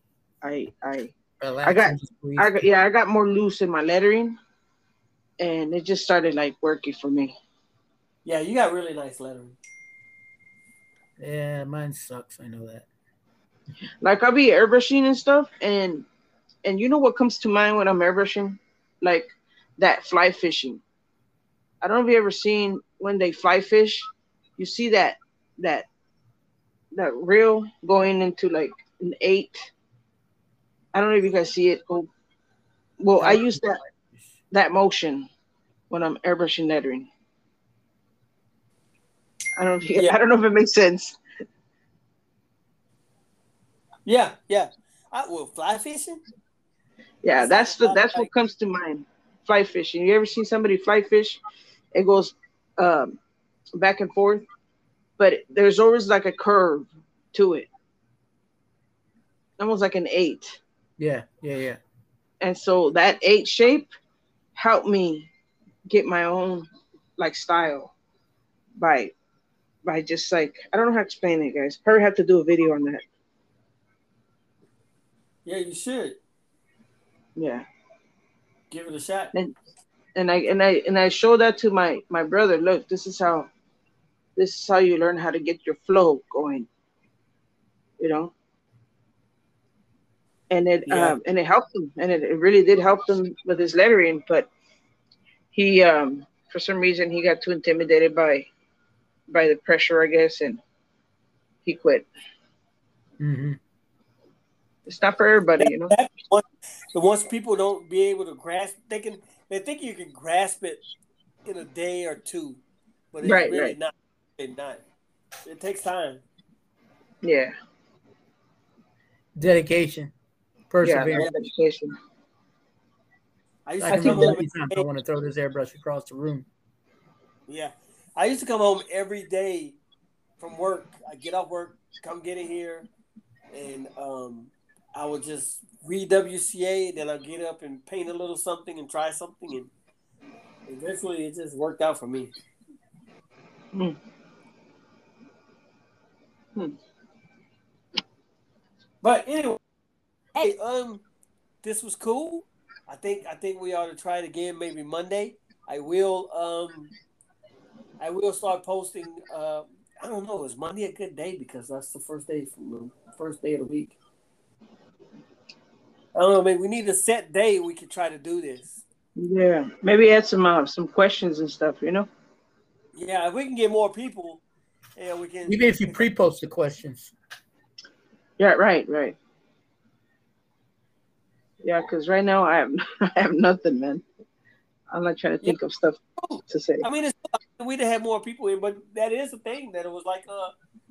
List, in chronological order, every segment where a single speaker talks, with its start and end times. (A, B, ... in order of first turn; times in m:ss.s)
0:00.4-0:01.1 A
0:01.4-0:02.5 B
0:01.6-0:04.4 A
0:05.4-0:07.4 A
0:08.2-0:09.6 C
0:11.2-0:12.9 B
0:14.0-0:16.1 A
0:16.6-0:20.8 A
0:21.8-0:25.8 A
0:26.9-0:29.6 A
0:30.9-0:32.1 A
0:33.0-0:33.8 A
0:33.2-0:33.6 B
0:34.5-0:35.3 A
0:35.9-0:37.1 A
0:39.6-0:41.2 A
0:44.0-0:46.2 C
0:47.2-0:51.4 A
0:47.3-0:48.3 C
0:51.9-0:53.2 A
0:53.7-0:54.4 A
0:55.2-0:57.7 A
0:59.6-1:00.6 A
1:01.0-1:01.8 B
1:02.4-1:03.9 A
1:04.5-1:05.3 A
1:05.9-1:06.7 A
1:07.2-1:07.9 A
1:08.8-1:09.1 A
1:09.8-1:13.0 A
1:15.4-1:16.2 C
1:17.4-1:17.6 A
1:18.7-1:19.3 C
1:20.1-1:23.5 A
1:24.4-1:26.7 A
1:28.0-1:28.3 A
1:30.5-1:34.5 A
1:30.8-1:31.2 C
1:35.5-1:38.5 A
1:39.3-1:40.6 A
1:41.6-1:42.1 A
1:43.2-1:43.6 B
1:44.9-1:45.9 A
1:45.6-1:50.8 C
1:51.4-1:54.8 C
1:53.2-1:53.8 A
1:55.4-1:56.2 C
1:57.2-1:57.5 A
1:59.4-2:00.1 B
2:00.7-2:01.3 B
2:00.8-2:01.9 A
2:03.6-2:04.8 C
2:03.8-2:06.5 B
2:03.9-2:04.4 A
2:07.5-2:09.8 C
2:10.4-2:12.9 C
2:13.5-2:19.7 C
2:20.6-2:22.3 C
2:29.0-2:29.6 C
2:30.4-2:31.0 C
2:31.6-2:36.9 C
2:38.0-2:44.0 C
2:46.1-2:48.8 C
2:49.2-2:52.1 A
2:52.9-2:54.4 C
2:55.0-2:55.6 C
2:55.5-2:57.1 B
2:58.4-2:59.2 A
3:01.6-3:04.0 A
3:04.9-3:06.8 A
3:06.2-3:10.6 C